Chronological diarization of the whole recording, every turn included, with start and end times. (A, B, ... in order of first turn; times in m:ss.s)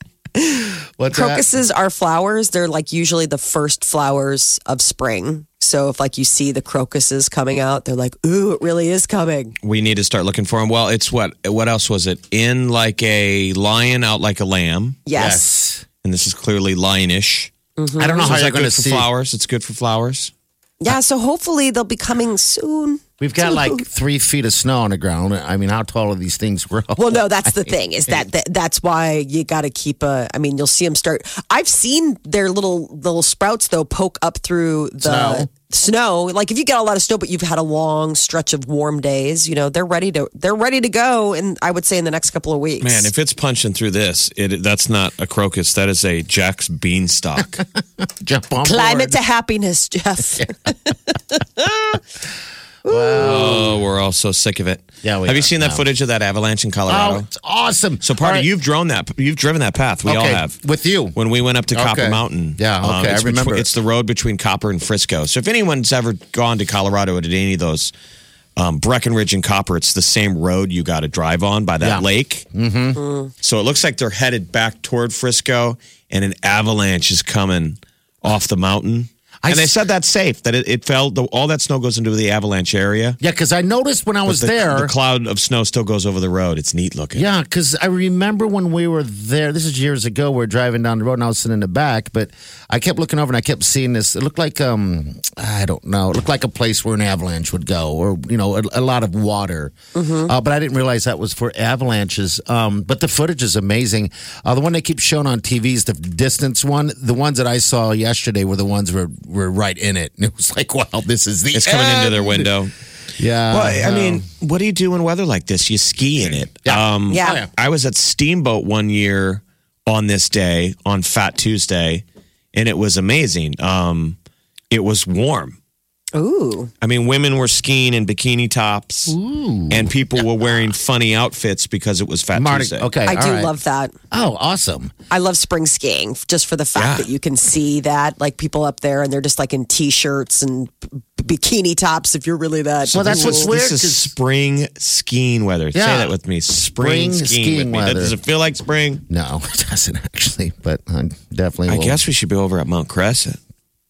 0:00.4-0:09.6 A
0:01.0-0:01.5 B
0:09.6-0:15.1 C
0:15.1-0:15.5 A
0:15.2-0:15.8 B
0:16.0-0:17.5 C
0:17.8-0:18.3 A
0:18.0-0:19.1 B
0:18.2-0:20.3 C
0:20.8-0:23.8 A
0:23.2-0:27.3 B
0:27.0-0:43.1 A
0:35.0-0:35.5 B
0:42.8-0:47.6 C
0:48.0-0:49.2 B
0:48.6-0:51.4 A
0:52.8-0:53.6 A
0:52.8-0:53.8 B
0:53.2-0:57.3 C
0:55.0-0:55.8 B
0:56.9-0:58.5 B
0:58.0-1:00.6 C
1:00.1-1:01.2 B
1:01.1-1:07.9 C
1:01.7-1:03.7 B
1:08.6-1:12.5 C
1:11.8-1:13.0 B
1:13.0-1:13.3 A
1:13.4-1:23.2 C
1:19.4-1:19.7 B
1:23.2-1:24.9 B
1:24.3-1:27.3 C
1:27.2-1:52.5 B
1:40.0-1:40.3 A
1:51.5-1:52.7 C
1:53.2-1:54.2 B
1:53.5-2:04.2 C
1:56.6-1:57.5 B
1:57.1-1:57.4 A
2:04.7-2:05.6 C
2:06.2-2:06.7 A
2:06.8-2:09.2 C
2:09.1-2:09.9 B
2:09.7-2:12.9 C
2:12.3-2:13.5 B
2:13.1-2:14.0 A
2:14.1-2:14.9 B
2:15.1-2:23.5 A
2:16.8-2:17.1 C
2:22.9-2:29.0 C
2:22.9-2:24.1 B
2:25.7-2:26.1 B
2:26.7-2:28.2 B
2:29.1-2:32.0 B
2:31.7-2:33.4 C